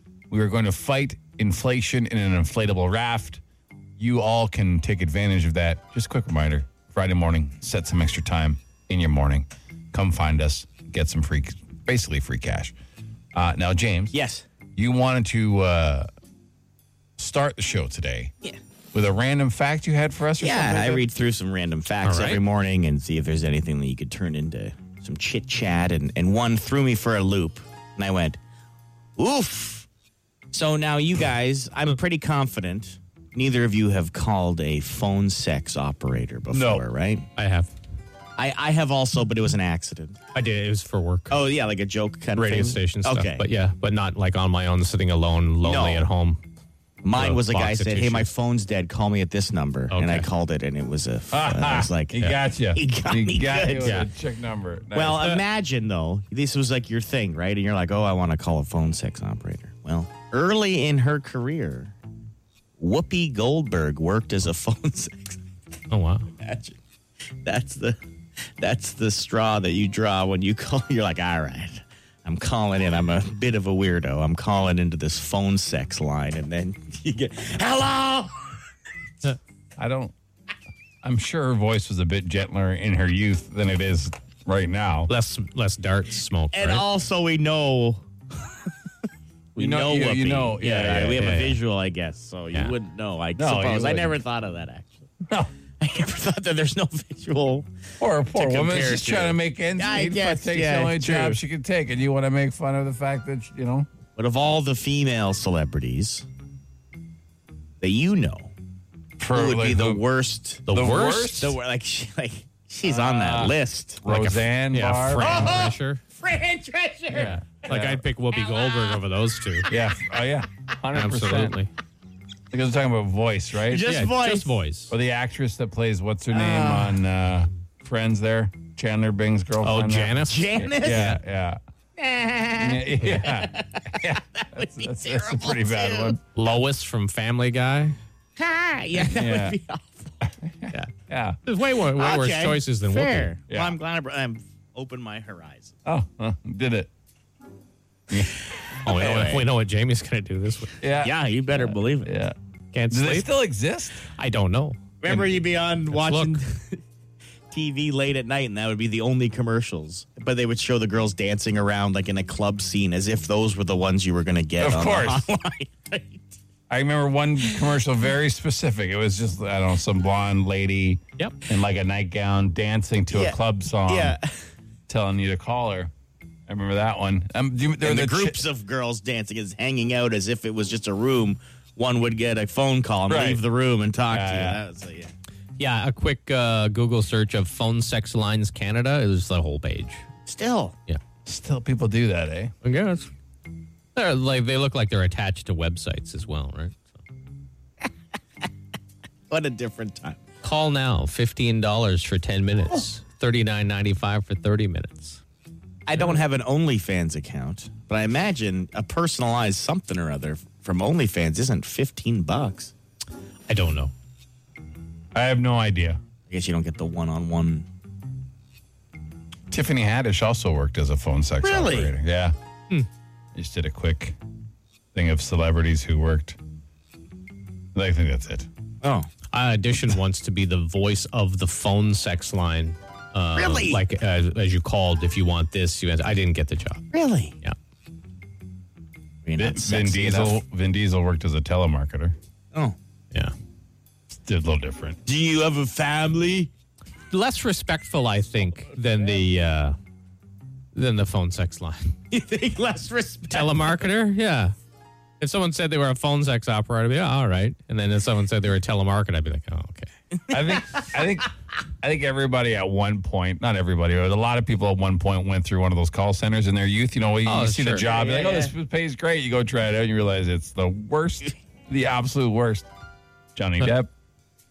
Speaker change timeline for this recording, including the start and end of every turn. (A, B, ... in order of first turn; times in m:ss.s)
0:00.3-0:03.4 A
0:04.0-0:12.7 A
0:13.3-0:14.1 A
0:14.1-0:14.4 B
0:14.8-0:16.1 A
0:17.2-0:18.3 A
0:18.9-0:21.0 A
0:20.4-0:28.4 B
0:22.0-0:22.4 C
0:29.2-0:29.9 B
0:30.5-0:37.3 B
0:36.5-0:36.8 A
0:37.4-0:37.7 C
0:38.4-0:40.2 B
0:40.3-0:41.4 C
0:41.3-0:43.4 B
0:42.4-0:46.4 C
0:45.6-0:46.0 B
0:47.0-0:54.0 B
0:47.1-0:48.3 C
0:49.9-0:50.3 C
0:51.3-0:55.2 A
0:53.8-0:54.1 C
0:54.9-1:01.9 B
1:02.8-1:05.4 B
1:05.9-1:06.3 C
1:06.4-1:06.8 B
1:07.4-1:08.0 B
1:08.6-1:18.5 B
1:19.8-1:20.1 A
1:21.0-1:25.1 A
1:25.1-1:26.8 C
1:26.5-1:28.0 B
1:29.6-1:35.1 B
1:29.6-1:31.3 A
1:31.2-1:31.6 C
1:33.4-1:34.1 A
1:35.8-1:37.7 B
1:38.0-1:43.9 A
1:38.3-1:41.4 B
1:44.2-1:46.2 B
1:47.8-1:48.5 B
1:49.2-1:50.0 A
1:49.3-1:50.7 B
1:50.7-1:51.4 C
1:50.7-1:51.6 A
1:51.4-1:54.0 B
1:52.8-1:55.3 A
1:54.0-1:56.0 C
1:55.2-1:57.4 B
1:57.1-1:58.0 A
1:57.2-1:59.7 C
1:58.4-1:59.0 B
1:59.7-2:01.6 A
2:00.9-2:01.7 C
2:02.5-2:03.9 A
2:03.6-2:04.5 B
2:03.8-2:04.9 C
2:04.9-2:11.6 A
2:06.3-2:07.0 B
2:09.6-2:11.2 C
2:10.3-2:11.2 B
2:12.0-2:16.2 B
2:12.6-2:16.2 A
2:16.3-2:18.0 C
2:18.4-2:20.1 B
2:19.1-2:19.6 A
2:20.3-2:21.4 A
2:21.4-2:23.3 C
2:21.8-2:25.8 B
2:23.5-2:23.8 A
2:25.8-2:26.9 A
2:28.8-2:30.8 C
2:28.8-2:29.4 B
2:30.8-2:32.3 A
2:31.0-2:32.1 B
2:32.7-2:33.3 C
2:32.9-2:34.0 A
2:34.1-2:34.8 C
2:35.0-2:36.8 B
2:35.9-2:36.4 C
2:37.5-2:46.3 B
2:44.6-2:45.2 A
2:46.7-2:54.2 A
2:53.1-2:54.4 B
2:54.9-2:55.9 A
2:56.5-2:58.4 A
2:57.8-3:05.1 B
3:03.1-3:03.4 A
3:04.1-3:04.6 A
3:05.6-3:10.0 C
3:10.2-3:10.8 B
3:11.2-3:12.5 A
3:12.6-3:13.1 C
3:13.9-3:17.0 C
3:19.3-3:20.2 B
3:20.4-3:25.2 C
3:25.8-3:32.7 B
3:33.5-3:33.9 C
3:35.2-3:36.0 A
3:36.3-3:37.7 B
3:39.5-3:42.3 A
3:41.4-3:41.9 B
3:43.3-3:44.2 A
3:44.9-3:46.4 A
3:47.8-3:48.5 A
3:48.8-3:49.1 B
3:49.3-3:56.8 C
3:53.4-3:53.8 B
3:56.9-3:57.4 B
3:59.2-4:00.4 B
3:59.4-4:02.2 A
4:04.1-4:05.0 A
4:05.0-4:06.5 B
4:07.1-4:09.8 C
4:10.8-4:12.0 C
4:12.1-4:13.8 B
4:13.3-4:14.5 C
4:15.2-4:19.9 C
4:20.1-4:20.9 B
4:20.3-4:21.3 A
4:21.8-4:32.6 A
4:27.2-4:27.9 C
4:27.8-4:28.5 B
4:33.4-4:33.9 A